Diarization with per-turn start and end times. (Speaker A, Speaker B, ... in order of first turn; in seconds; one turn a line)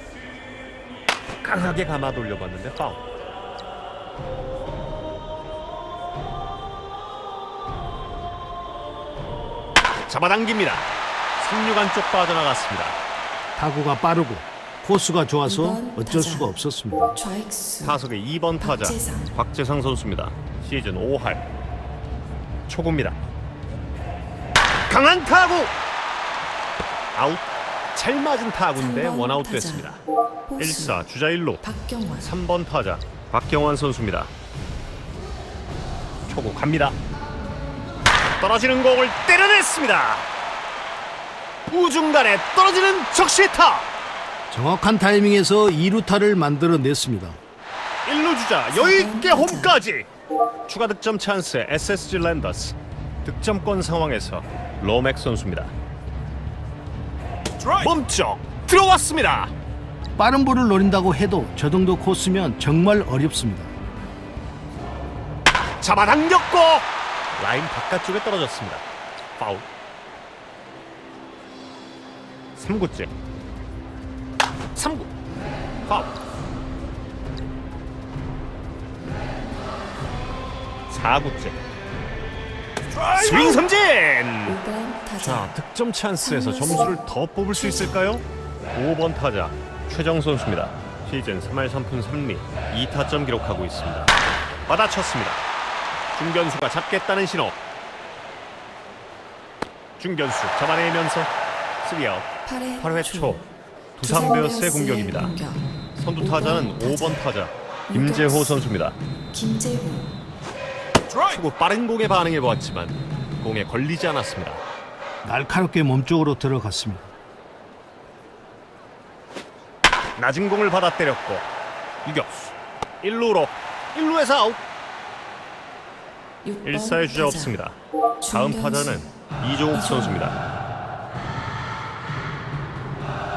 Speaker A: 1.4-3.0
Speaker A: 10.1-10.9
Speaker A: 11.4-13.0
Speaker B: 13.6-17.2
Speaker C: 15.4-16.6
Speaker C: 17.1-18.0
Speaker A: 17.8-21.4
Speaker C: 18.6-19.3
Speaker A: 22.7-23.1
Speaker A: 24.9-25.7
Speaker A: 27.1-30.0
Speaker C: 28.7-29.9
Speaker C: 30.5-31.0
Speaker A: 30.6-31.6
Speaker C: 31.6-32.3
Speaker A: 32.2-34.3
Speaker A: 36.3-36.9
Speaker A: 38.4-40.2
Speaker A: 41.7-43.9
Speaker B: 44.5-47.4
Speaker A: 48.0-50.1
Speaker C: 48.7-49.7
Speaker A: 50.7-55.7
Speaker A: 57.8-59.5
Speaker B: 60.2-63.7
Speaker A: 65.8-66.8
Speaker A: 67.4-68.8
Speaker A: 69.4-69.7
Speaker A: 72.6-73.1
Speaker A: 74.7-75.1
Speaker A: 75.9-76.1
Speaker A: 80.9-81.6
Speaker A: 83.1-84.6
Speaker C: 84.5-85.5
Speaker A: 85.2-88.2
Speaker C: 86.2-87.0
Speaker C: 87.5-88.0
Speaker A: 88.7-94.1
Speaker A: 94.7-95.4
Speaker A: 96.1-97.5
Speaker A: 100.0-101.3
Speaker A: 101.8-102.3
Speaker C: 102.4-103.4
Speaker A: 102.8-103.4
Speaker A: 104.0-105.3
Speaker C: 104.0-105.7
Speaker A: 106.0-109.0
Speaker C: 106.2-107.2
Speaker C: 107.9-108.6
Speaker C: 109.3-110.1
Speaker A: 111.2-114.6
Speaker B: 115.2-117.1
Speaker A: 120.2-121.5
Speaker A: 122.0-124.6
Speaker C: 126.4-127.6
Speaker A: 126.7-130.3
Speaker C: 128.2-129.1
Speaker C: 129.7-130.4